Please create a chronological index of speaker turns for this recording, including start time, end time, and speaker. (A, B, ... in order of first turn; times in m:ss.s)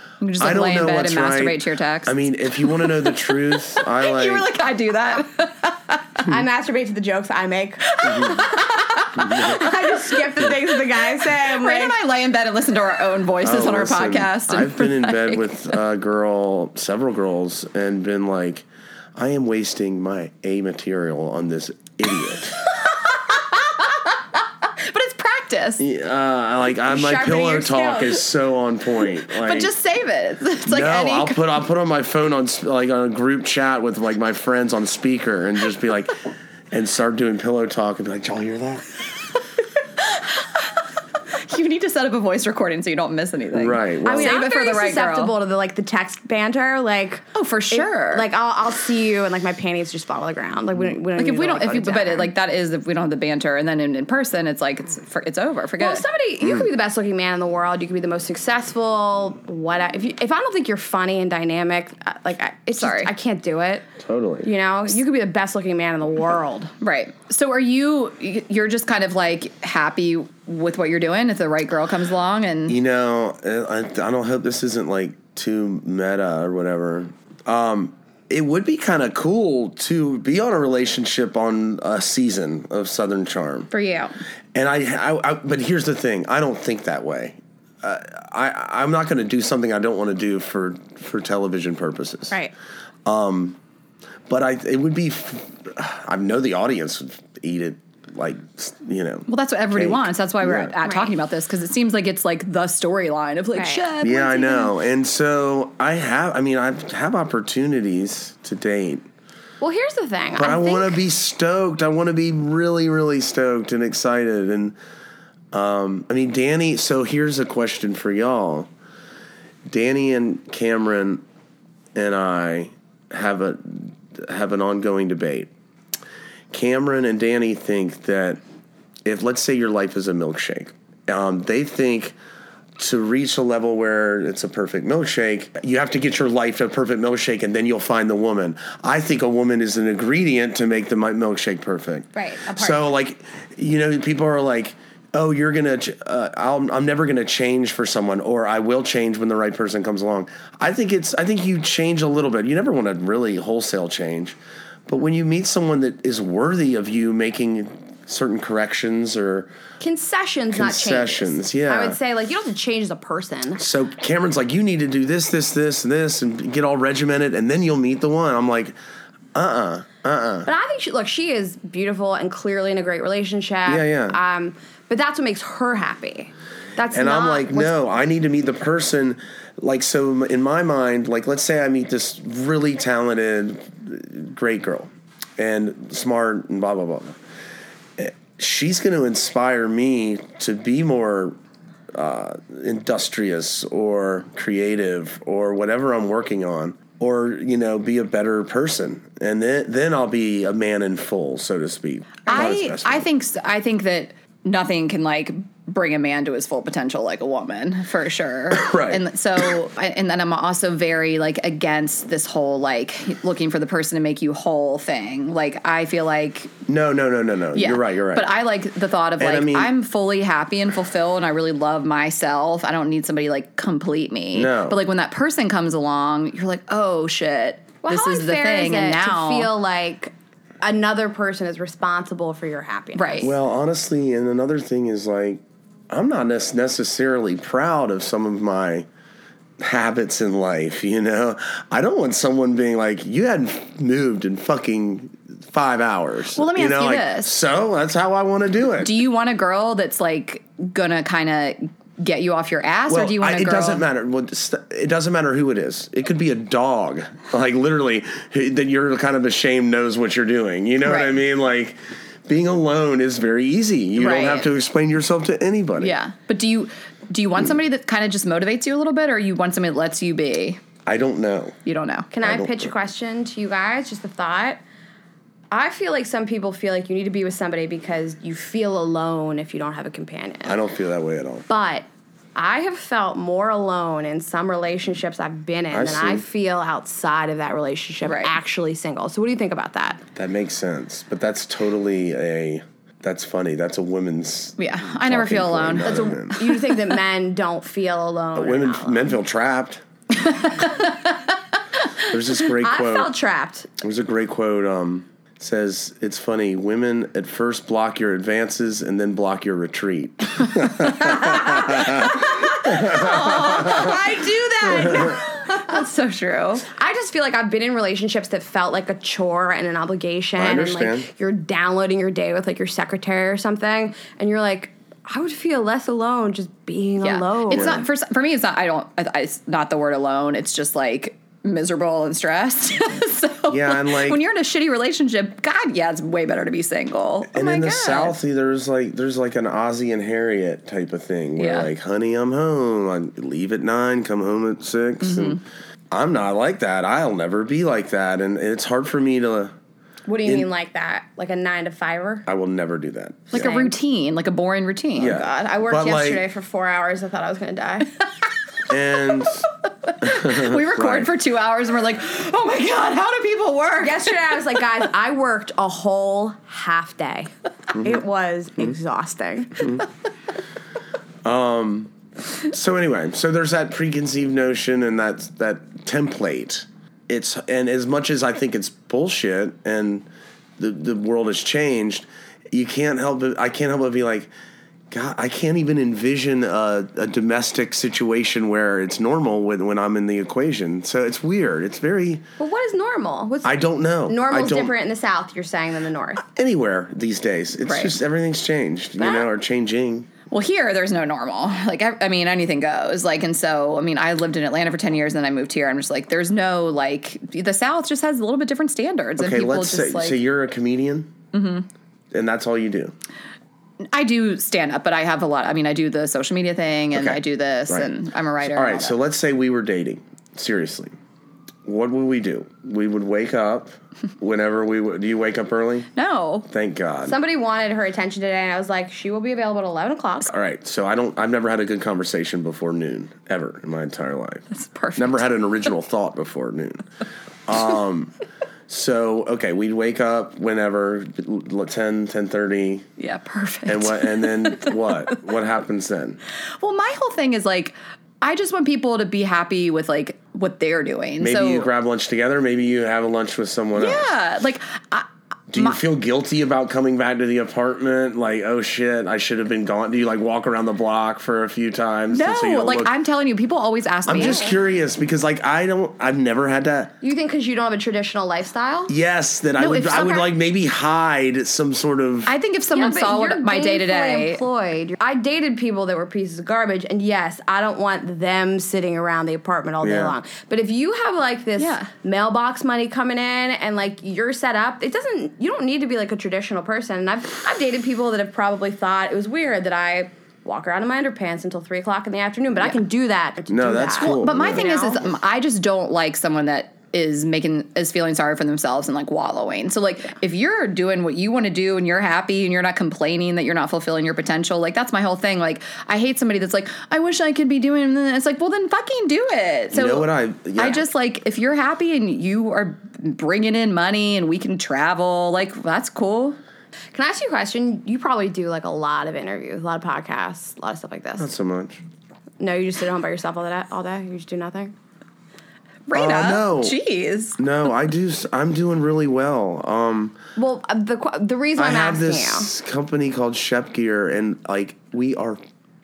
0:00.2-0:06.3 A
0:00.4-0:04.5 B
0:06.2-0:12.0 C
0:07.9-0:15.4 A
0:08.0-0:08.4 B
0:09.2-0:09.5 B
0:13.4-0:22.6 B
0:22.6-0:25.8 A
0:25.8-0:29.7 B
0:26.9-0:28.2 C
0:29.3-0:31.4 A
0:30.7-0:36.2 B
0:36.7-0:38.9 B
0:40.0-0:40.8 A
0:41.3-0:45.3 A
0:43.5-0:44.3 B
0:44.0-0:52.3 C
0:47.4-0:48.3 A
0:51.2-0:56.0 A
0:55.8-1:03.9 C
1:02.8-1:03.1 A
1:04.0-1:04.5 B
1:04.4-1:06.7 C
1:06.8-1:12.8 A
1:12.7-1:23.7 B
1:23.7-1:24.1 C
1:24.5-1:32.4 B
1:33.0-1:33.6 B
1:34.3-1:40.8 B
1:39.3-1:44.7 A
1:40.8-1:41.1 C
1:43.6-1:43.8 C
1:44.0-1:49.1 B
1:49.6-1:51.0 C
1:50.4-1:54.8 B
1:55.5-1:58.7 B
1:59.7-2:01.2 B
2:02.0-2:05.5 B
2:06.5-2:08.4 B
2:09.0-2:12.2 B
2:12.8-2:39.5 B
2:22.1-2:22.9 C
2:39.8-2:43.6 C
2:40.5-2:42.0 B
2:43.6-2:48.8 B
2:49.4-2:50.5 B
2:50.5-2:57.7 C
2:53.7-2:54.2 B
2:56.9-3:07.2 B
3:08.0-3:11.4 B
3:11.9-3:23.1 B
3:22.3-3:36.5 A
3:28.5-3:29.5 B
3:36.7-3:38.3 B
3:37.6-3:49.5 A
3:39.2-3:39.7 B
3:44.3-3:44.8 B
3:47.8-3:53.3 C
3:53.0-3:53.3 A
3:53.2-3:58.9 B
3:59.6-4:09.0 B
4:06.4-4:07.3 A
4:08.8-4:13.8 A
4:12.9-4:26.0 B
4:20.8-4:21.2 A
4:24.0-4:24.5 A
4:25.8-4:30.6 A
4:30.9-4:31.6 B
4:31.7-4:32.1 A
4:32.1-4:34.6 C
4:32.2-4:32.7 B
4:35.5-4:40.6 C
4:40.4-4:41.4 B
4:41.5-4:50.0 C
4:45.7-4:46.2 B
4:48.0-4:48.3 A
4:50.2-4:56.4 B
4:54.6-4:56.8 A
4:55.9-4:59.1 C
4:58.4-4:59.8 B
5:00.2-5:01.2 A
5:02.0-5:03.1 B
5:02.6-5:03.7 C
5:03.8-5:14.0 B
5:10.8-5:16.6 A
5:14.6-5:15.2 B
5:16.7-5:27.8 C
5:20.4-5:21.1 B
5:27.0-5:38.2 A
5:27.5-5:27.8 B
5:33.5-5:34.2 B
5:37.3-5:45.4 B
5:41.4-5:41.7 A
5:45.0-5:45.4 A
5:45.9-5:49.6 B
5:50.1-5:52.3 C
5:52.3-5:53.5 B
5:53.3-5:53.8 C
5:53.3-5:55.2 A
5:55.0-5:56.2 B
5:55.0-5:57.9 C
5:58.7-5:59.5 B
5:59.8-6:04.2 A
6:00.0-6:01.1 B
6:03.8-6:09.8 C
6:11.2-6:11.9 B
6:12.5-6:20.1 B
6:20.6-6:24.3 B
6:24.9-6:32.2 B
6:32.4-6:36.2 C
6:33.4-6:34.7 B
6:36.2-6:40.1 B
6:37.7-6:37.9 A
6:40.3-6:50.2 A
6:49.2-6:51.1 B
6:51.3-6:51.7 A
6:52.1-6:52.9 B
6:53.9-6:59.0 A
6:56.9-6:57.9 B
6:58.4-7:01.0 B
7:01.7-7:05.9 B
7:06.0-7:06.5 A
7:06.5-7:07.2 B
7:07.0-7:10.3 C
7:10.3-7:16.8 B
7:14.5-7:15.4 A
7:17.5-7:18.1 B
7:18.7-7:22.9 B
7:23.0-7:25.1 A
7:23.7-7:26.2 B
7:26.6-7:31.7 A
7:31.2-7:34.1 B
7:33.8-7:35.8 A
7:35.5-7:42.9 B
7:42.1-7:44.5 A
7:44.1-7:46.9 B
7:44.2-7:44.5 C
7:47.0-7:48.9 C
7:48.9-7:52.3 B
7:49.6-7:50.3 A
7:52.3-7:54.4 A
7:52.7-8:15.0 C
7:59.8-8:00.2 B
8:01.6-8:01.9 A
8:13.5-8:14.7 B
8:14.0-8:36.4 A
8:29.7-8:30.8 B
8:36.9-8:41.3 C
8:41.2-8:41.8 B
8:42.4-8:44.7 C
8:45.9-8:47.4 A
8:45.9-8:46.8 B
8:47.4-8:50.2 B
8:50.4-8:52.5 C
8:51.6-8:55.4 B